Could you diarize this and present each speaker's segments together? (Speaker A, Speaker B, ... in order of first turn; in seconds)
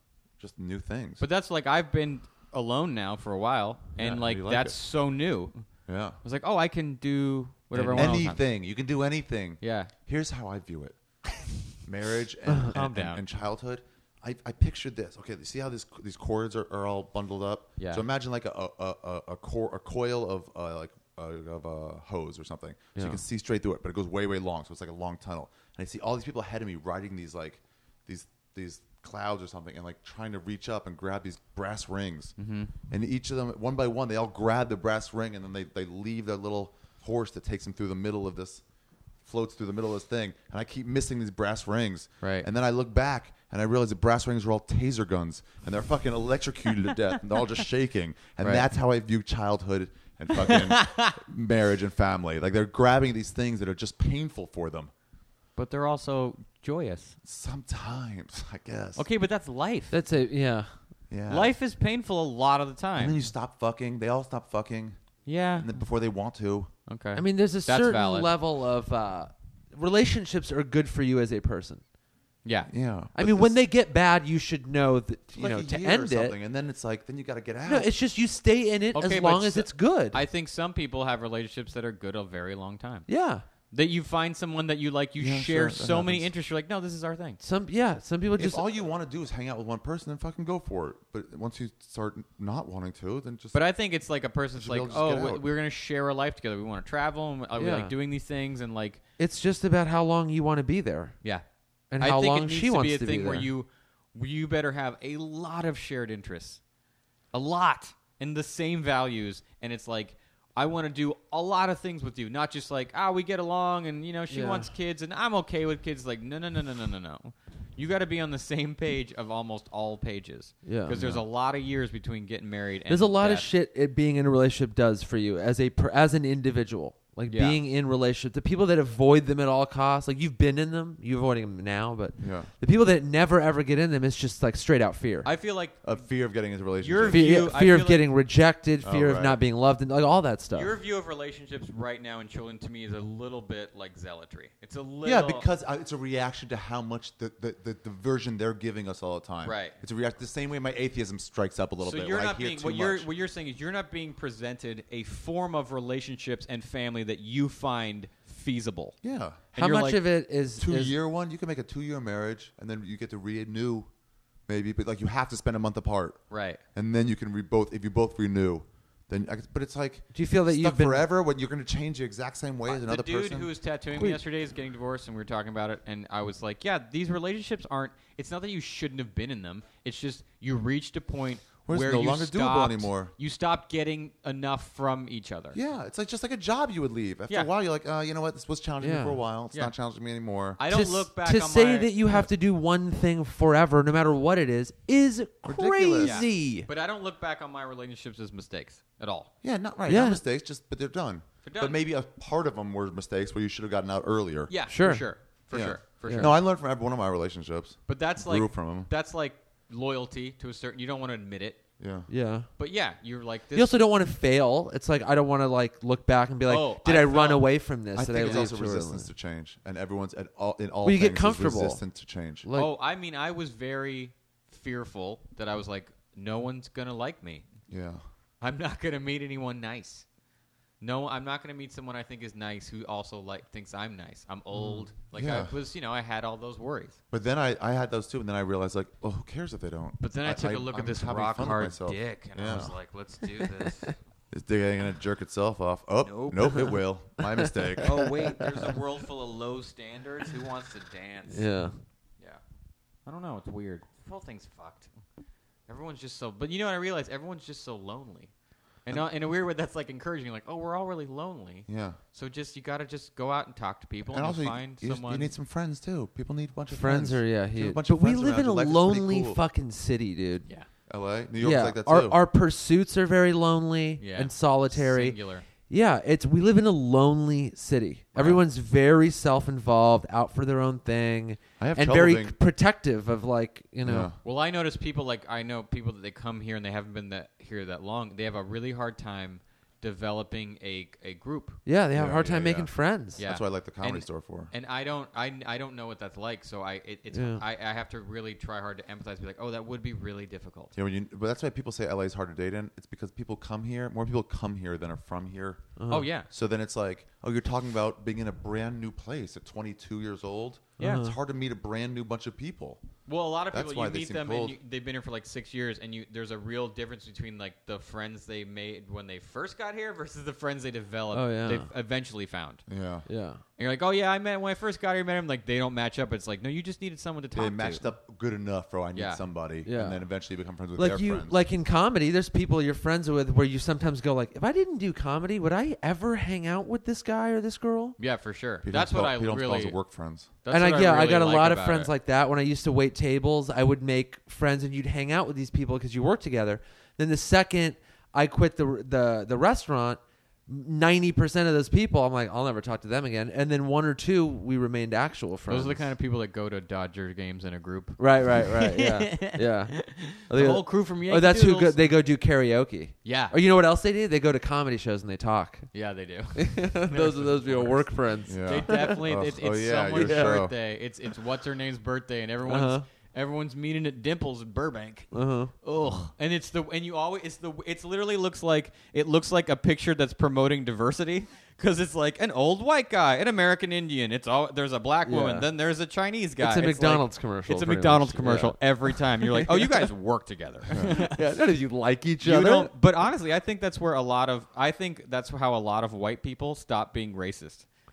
Speaker A: 0.4-1.3, 4.0-4.8, 5.9-6.2, 7.8-11.0, 11.8-32.3, 32.9-38.6, 39.2-54.9, 57.2-59.0, 61.1-61.5, 63.0-65.0, 65.6-66.7, 72.7-73.5, 75.3-77.9, 85.2-86.3, 88.4-93.6, 94.5-95.5, 120.9-121.2, 132.2-132.5, 135.8-137.3, 138.8-139.4, 145.0-153.1, 159.0-159.5, 160.6-163.9, 164.5-166.2, 166.7-173.5, 181.7-183.1, 185.5-190.6, 195.4-196.2, 199.4-204.6, 205.5-208.9, 211.8-212.1, 217.9-222.5, 227.7-228.0, 235.1-235.5, 237.1-242.8, 244.3-248.7, 261.7-262.0, 264.1-269.4, 270.9-272.2, 278.2-278.4, 281.6-282.4, 283.8-284.2, 291.9-294.5, 300.8-312.8, 313.5-314.6, 322.7-323.1, 327.4-331.4, 338.6-340.3, 368.3-370.6, 375.8-376.1, 390.7-391.0
Speaker B: 1.2-5.7, 6.2-8.4, 9.6-9.9, 12.7-13.2, 17.8-18.0, 32.4-32.7, 42.2-42.5, 48.4-48.7, 50.4-51.1, 55.6-57.2, 59.0-60.0, 61.3-63.2, 65.3-65.8, 66.9-68.3, 72.4-72.7, 78.9-83.1, 83.7-87.4, 93.5-99.0, 102.0-106.6, 107.3-123.5, 127.3-127.6, 135.2-136.0, 136.8-138.1, 140.5-145.4, 149.4-149.8, 151.8-159.0, 159.6-160.0, 166.3-166.6, 172.7-185.6, 190.6-192.2, 196.0-199.3, 201.4-201.8, 204.5-206.4, 207.9-211.6, 212.6-213.8, 216.5-217.5, 222.6-227.5, 228.4-230.1, 230.8-237.0, 240.0-244.0, 246.0-246.7, 247.8-251.5, 253.1-254.9, 255.7-258.3, 258.9-265.3, 274.0-275.5, 284.2-291.6, 293.2-300.7, 305.9-306.3, 313.1-322.6, 323.6-327.9, 328.9-329.2, 338.0-339.8, 340.4-341.9, 355.5-361.8, 363.0-363.4, 365.7-367.9, 368.4-391.2, 392.2-397.7
Speaker C: 7.8-8.2, 23.0-23.2, 59.9-60.8, 67.2-71.8, 73.2-76.4, 77.7-80.2, 83.1-83.4, 87.4-88.6, 97.6-98.0, 99.2-101.2, 101.9-103.5, 114.3-114.7, 120.7-121.0, 122.9-135.3, 137.1-140.7, 159.6-160.9, 170.1-171.1, 173.9-174.2, 188.8-189.2, 190.7-196.7, 199.9-200.2, 204.7-205.1, 206.1-206.3, 212.1-212.5, 213.5-219.1, 220.8-221.8, 222.4-222.7, 234.6-234.8, 251.3-251.8, 266.7-270.5, 271.4-284.1, 291.7-293.2, 297.1-297.4, 305.8-306.1, 310.8-311.2, 321.1-321.7, 323.1-323.4, 329.6-330.0, 330.8-338.0, 340.5-355.9, 358.0-365.7, 366.4-369.0, 369.9-370.4, 372.4-372.9, 375.1-375.5, 385.1-385.5, 386.4-389.8, 390.8-392.7